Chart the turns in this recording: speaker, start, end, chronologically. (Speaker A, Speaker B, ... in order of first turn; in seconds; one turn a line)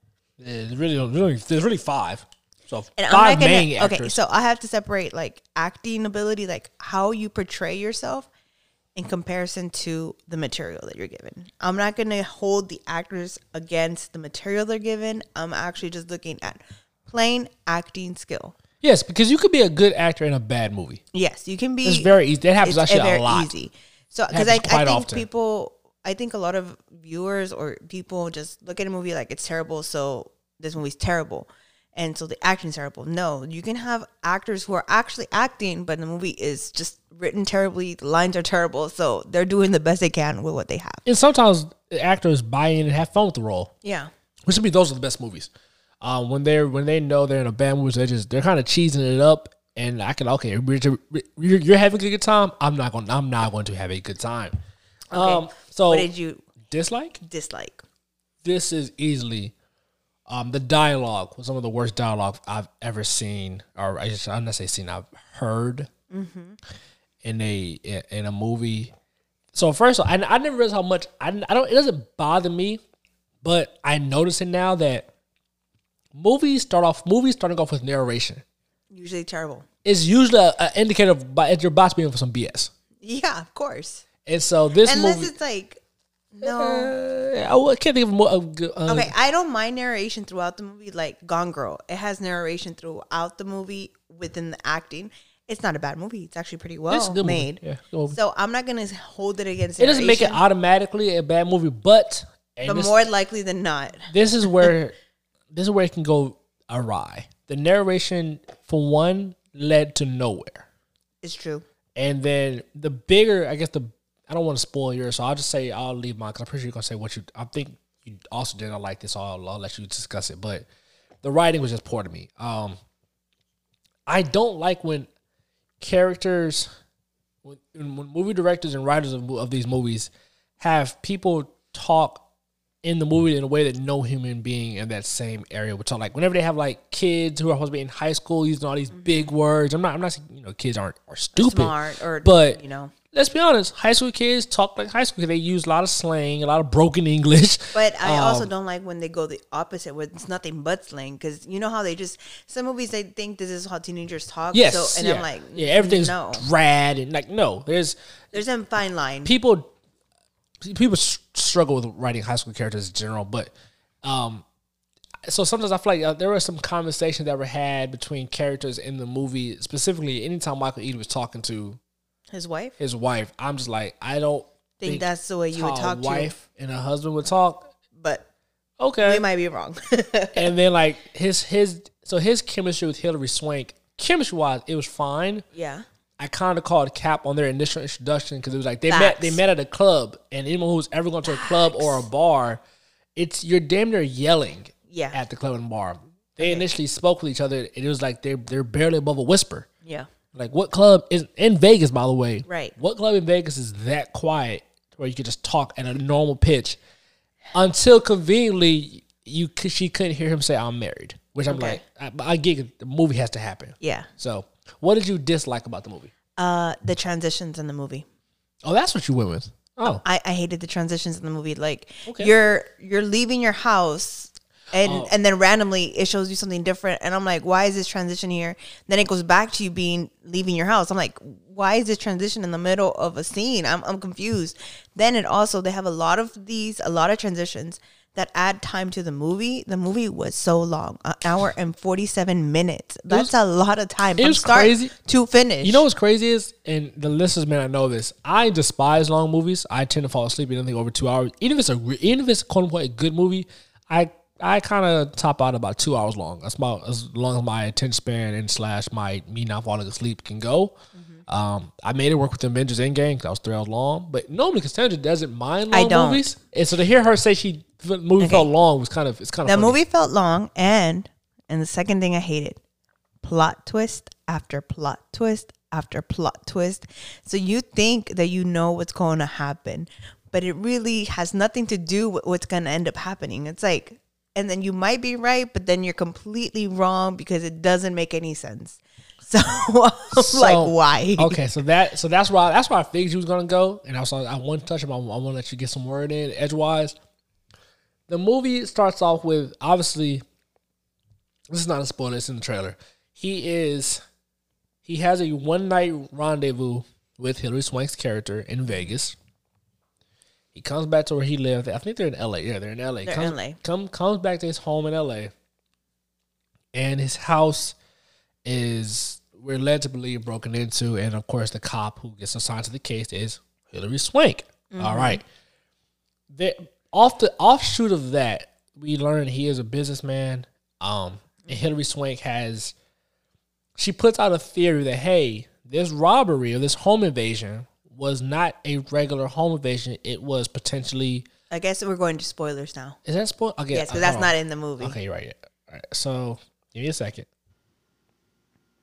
Speaker A: 0.4-4.2
Speaker B: 3.0-8.3
Speaker B: 8.9-18.5
Speaker A: 18.8-21.0
Speaker B: 21.1-41.0
Speaker A: 21.8-23.5
Speaker A: 24.3-25.3
Speaker A: 41.0-43.7
Speaker B: 43.8-44.1
Speaker A: 44.5-45.5
Speaker A: 46.0-54.6
Speaker A: 55.1-56.1
Speaker B: 55.1-56.5
Speaker A: 56.6-57.2
Speaker B: 57.2-57.8
Speaker A: 58.4-59.5
Speaker A: 60.3-65.9
Speaker B: 66.1-66.6
Speaker A: 67.2-68.9
Speaker A: 69.5-72.8
Speaker A: 73.4-75.1
Speaker A: 76.1-78.4
Speaker B: 78.9-79.7
Speaker A: 79.8-82.7
Speaker B: 83.0-84.0
Speaker A: 84.3-85.3
Speaker B: 84.8-85.8
Speaker B: 86.3-86.9
Speaker A: 86.4-89.1
Speaker B: 88.9-97.6
Speaker A: 96.9-98.2
Speaker B: 98.1-100.4
Speaker A: 99.8-103.0
Speaker B: 102.7-104.1
Speaker A: 104.1-104.9
Speaker A: 105.5-110.7
Speaker B: 111.2-111.6
Speaker A: 112.0-120.7
Speaker A: 121.2-122.8
Speaker A: 124.1-125.1
Speaker A: 125.8-126.7
Speaker A: 127.4-132.2
Speaker A: 132.8-142.6
Speaker B: 138.9-139.3
Speaker B: 141.4-142.9
Speaker A: 143.1-148.5
Speaker B: 147.7-156.4
Speaker A: 154.5-158.4
Speaker B: 158.3-159.3
Speaker A: 159.2-159.7
Speaker A: 160.6-163.5
Speaker A: 164.0-164.4
Speaker A: 165.3-171.8
Speaker B: 172.3-172.7
Speaker A: 172.8-177.7
Speaker B: 174.8-176.3
Speaker B: 178.0-178.2
Speaker A: 178.8-179.2
Speaker B: 179.0-180.5
Speaker A: 180.3-185.5
Speaker B: 185.5-185.8
Speaker A: 186.2-192.6
Speaker B: 188.9-189.4
Speaker B: 191.3-192.0
Speaker A: 193.2-199.7
Speaker B: 194.9-195.2
Speaker B: 196.4-196.7
Speaker A: 200.3-206.8
Speaker B: 202.5-202.7
Speaker A: 207.5-216.1
Speaker B: 211.5-211.8
Speaker B: 213.8-214.1
Speaker B: 216.4-218.1
Speaker A: 218.6-220.0
Speaker B: 219.8-245.8
Speaker A: 222.1-222.3
Speaker A: 224.8-225.1
Speaker A: 244.2-244.9
Speaker A: 245.6-260.8
Speaker B: 261.0-261.2
Speaker A: 261.3-269.8
Speaker B: 265.7-266.3
Speaker B: 268.2-268.5
Speaker B: 269.4-272.6
Speaker B: 273.2-291.4
Speaker A: 290.1-296.9
Speaker A: 298.1-300.2
Speaker A: 301.5-304.0
Speaker A: 304.9-309.2
Speaker A: 310.5-315.3
Speaker B: 313.0-313.6
Speaker A: 316.7-317.8
Speaker A: 318.4-325.2
Speaker B: 324.7-325.2
Speaker A: 326.3-332.8
Speaker A: 333.8-341.3
Speaker B: 341.5-343.0
Speaker A: 343.1-347.3
Speaker B: 343.7-345.0